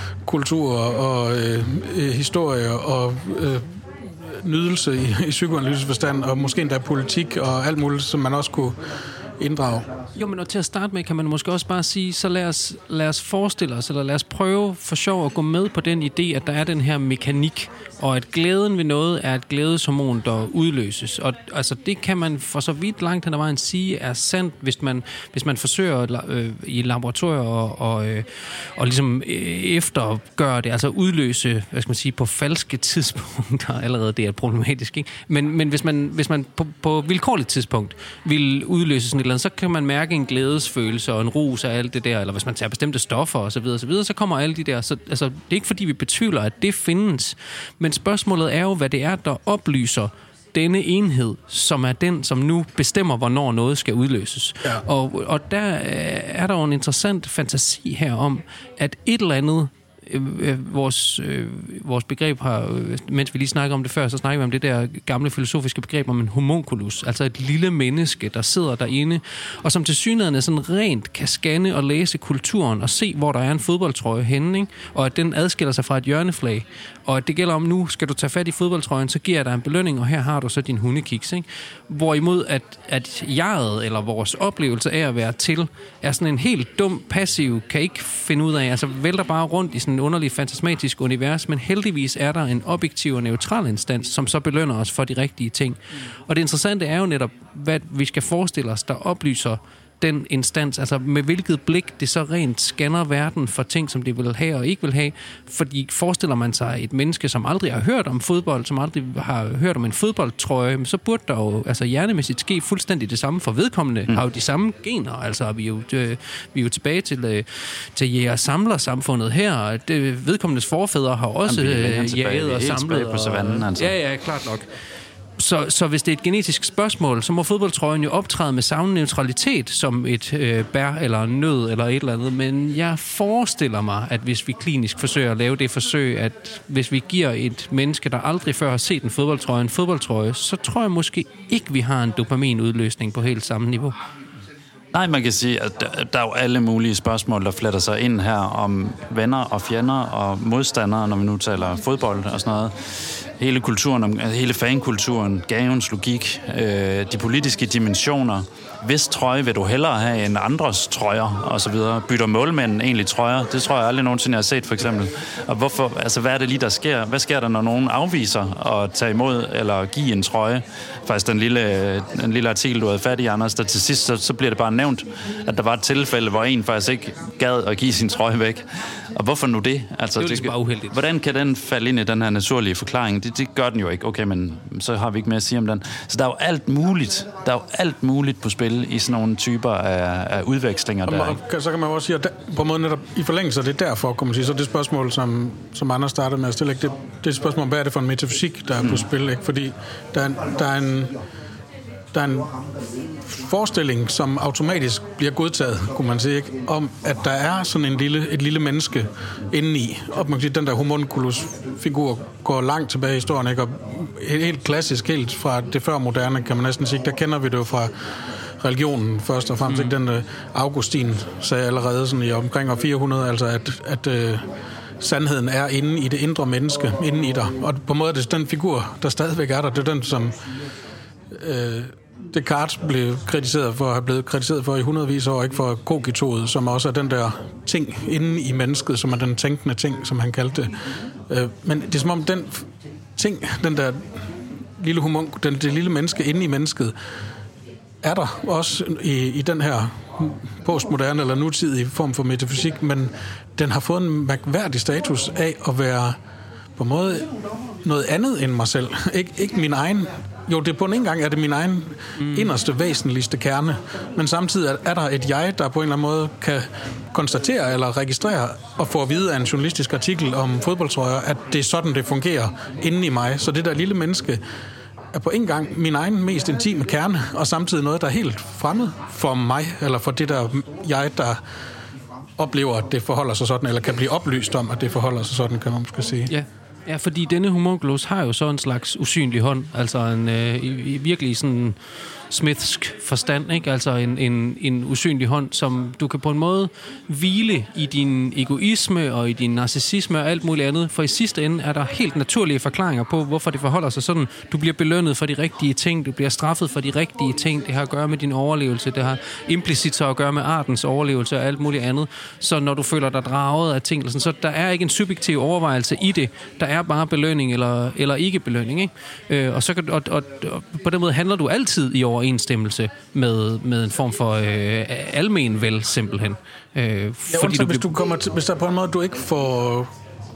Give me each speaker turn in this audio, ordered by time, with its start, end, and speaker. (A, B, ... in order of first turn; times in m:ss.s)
0:00.2-0:10.0 A
0:10.2-2:04.6 B
2:01.5-2:03.9 C
2:05.4-2:24.0 B
2:24.9-3:11.4 C
3:00.2-3:01.0 B
3:11.0-3:21.2 A
3:22.1-3:22.5 A
3:23.2-3:37.9 A
3:38.6-3:44.4 A
3:39.7-3:40.0 B
3:45.0-3:50.5 A
3:51.3-4:06.9 A
4:08.0-4:16.2 A
4:16.8-4:17.3 A
4:17.8-4:34.4 A
4:22.2-4:22.5 B
4:35.1-4:41.4 A
4:42.4-4:46.3 A
4:46.3-4:51.8 B
4:52.3-5:27.9 B
5:27.3-5:29.9 A